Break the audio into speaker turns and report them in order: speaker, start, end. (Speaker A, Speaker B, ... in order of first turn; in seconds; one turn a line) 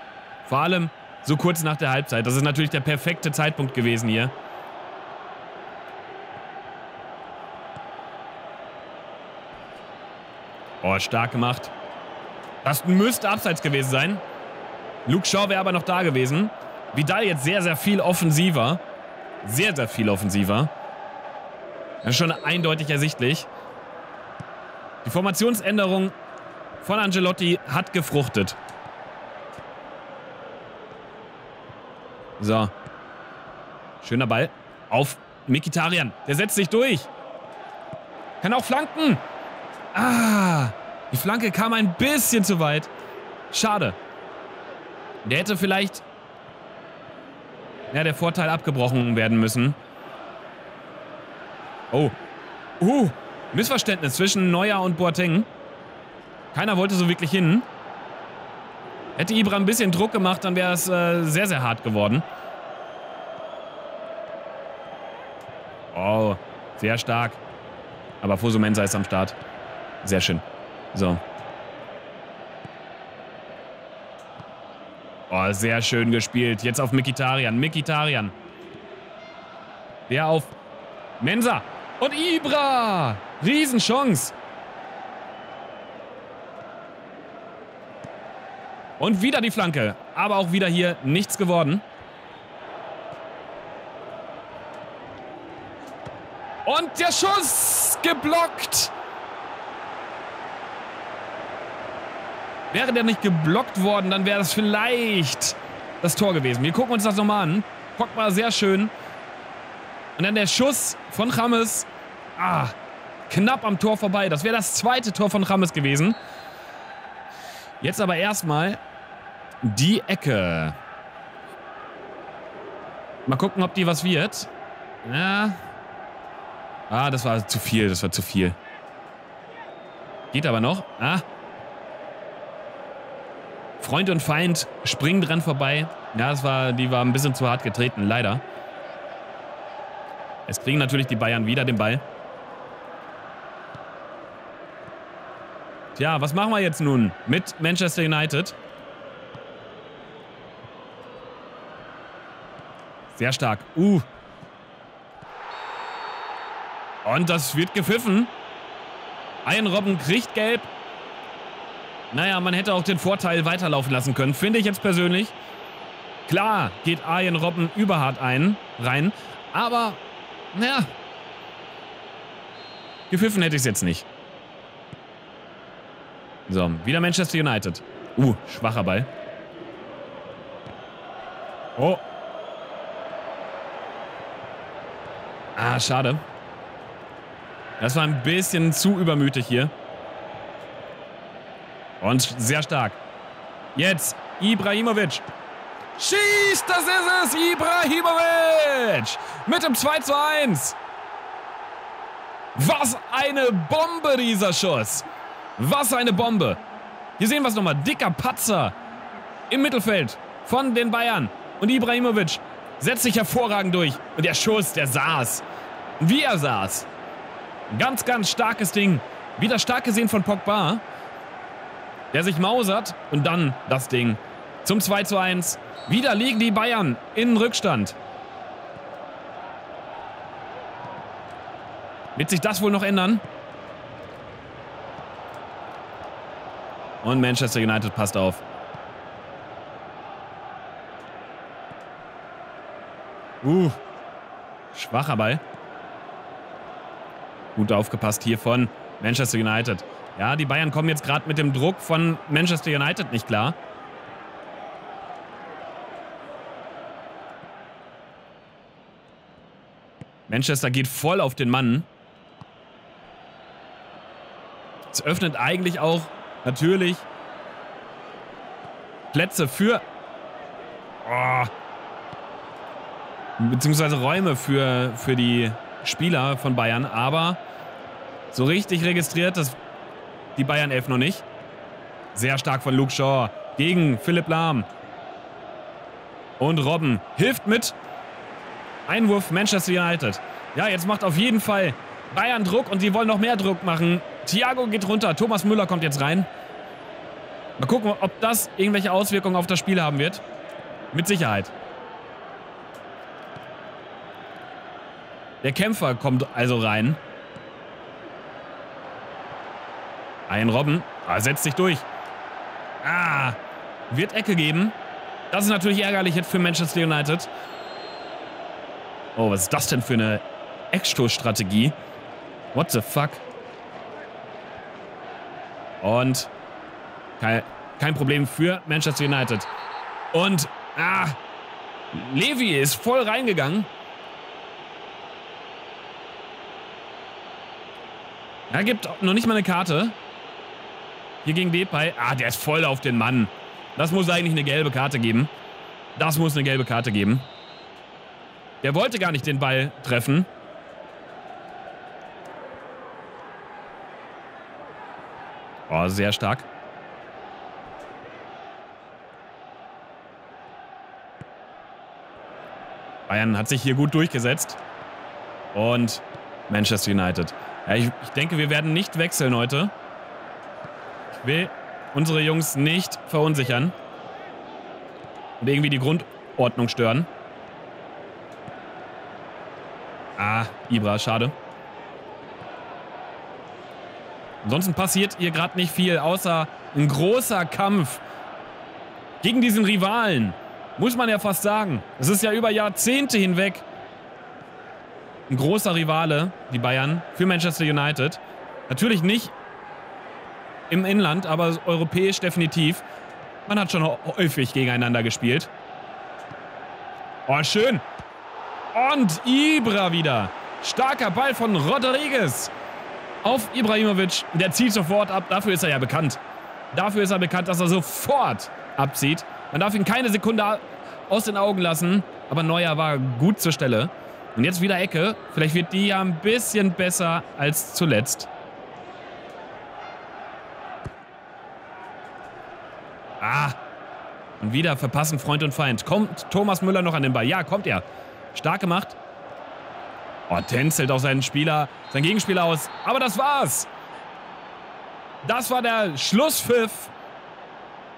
Speaker A: 0.4-4.3
Speaker A: 10.8-11.7
Speaker A: 12.6-14.2
Speaker A: 15.1-18.8
Speaker A: 19.4-20.7
Speaker A: 22.0-23.5
Speaker A: 25.0-26.1
Speaker A: 26.8-28.6
Speaker A: 32.4-32.7
Speaker A: 34.0-37.1
Speaker A: 38.4-39.2
Speaker A: 39.9-42.9
Speaker A: 43.5-44.0
Speaker A: 45.2-46.0
Speaker A: 47.9-49.8
Speaker A: 52.8-55.5
Speaker A: 56.5-57.7
Speaker A: 59.1-62.2
Speaker A: 65.9-67.4
Speaker A: 68.2-69.4
Speaker A: 70.0-71.2
Speaker A: 75.3-78.3
Speaker A: 80.1-80.5
Speaker A: 81.2-84.3
Speaker A: 89.0-91.8
Speaker A: 96.7-98.9
Speaker A: 102.7-108.9
Speaker A: 110.2-112.7
Speaker A: 113.3-116.2
Speaker A: 117.8-118.8
Speaker A: 119.6-120.8
Speaker A: 123.2-124.5
Speaker A: 125.0-125.6
Speaker A: 126.9-128.6
Speaker A: 130.3-131.2
Speaker A: 133.8-138.4
Speaker A: 140.5-142.0
Speaker A: 145.9-148.6
Speaker A: 153.1-154.0
Speaker A: 157.0-158.3
Speaker A: 159.4-160.7
Speaker A: 162.1-165.3
Speaker A: 166.3-170.0
Speaker A: 170.5-170.9
Speaker A: 173.1-174.1
Speaker A: 176.5-179.1
Speaker A: 181.8-182.0
Speaker A: 185.6-186.2
Speaker A: 187.8-189.7
Speaker A: 192.0-193.0
Speaker A: 193.7-195.2
Speaker A: 196.0-200.8
Speaker A: 202.5-205.1
Speaker A: 205.6-206.6
Speaker A: 207.2-208.8
Speaker A: 209.5-215.4
Speaker A: 216.0-216.9
Speaker A: 217.7-220.8
Speaker A: 222.1-227.9
Speaker A: 232.1-233.2
Speaker A: 237.0-238.4
Speaker A: 243.4-243.8
Speaker A: 244.7-245.4
Speaker A: 247.6-253.6
Speaker A: 260.3-261.9
Speaker A: 264.9-267.1
Speaker A: 269.1-269.8
Speaker A: 271.0-271.5
Speaker A: 273.4-277.4
Speaker A: 278.3-279.6
Speaker A: 280.4-281.2
Speaker A: 282.1-284.7
Speaker A: 286.4-287.8
Speaker A: 288.9-296.3
Speaker A: 297.6-300.2
Speaker A: 300.9-301.5
Speaker A: 305.4-307.0
Speaker A: 310.3-311.9
Speaker A: 312.8-313.4
Speaker A: 313.9-314.8
Speaker A: 315.3-317.3
Speaker A: 319.1-321.8
Speaker A: 322.5-323.2
Speaker A: 325.8-326.3
Speaker A: 327.2-329.5
Speaker A: 330.1-331.1
Speaker A: 331.9-333.7
Speaker A: 338.5-339.9
Speaker A: 341.2-345.3
Speaker A: 345.9-347.3
Speaker A: 348.6-350.3
Speaker A: 355.7-356.5
Speaker A: 363.1-364.6
Speaker A: 365.5-369.7
Speaker A: 371.1-373.7
Speaker A: 375.4-377.1
Speaker A: 380.2-381.4
Speaker A: 384.4-388.0
Speaker A: 389.2-393.6
Speaker A: 395.3-399.4
Speaker A: 400.7-402.8
Speaker A: 403.4-405.5
Speaker A: 407.3-407.8
Speaker A: 408.7-412.5
Speaker A: 413.2-416.2
Speaker A: 416.7-428.3
Speaker A: 433.2-433.6
Speaker A: 434.4-439.0
Speaker A: 440.3-443.7
Speaker A: 445.2-446.9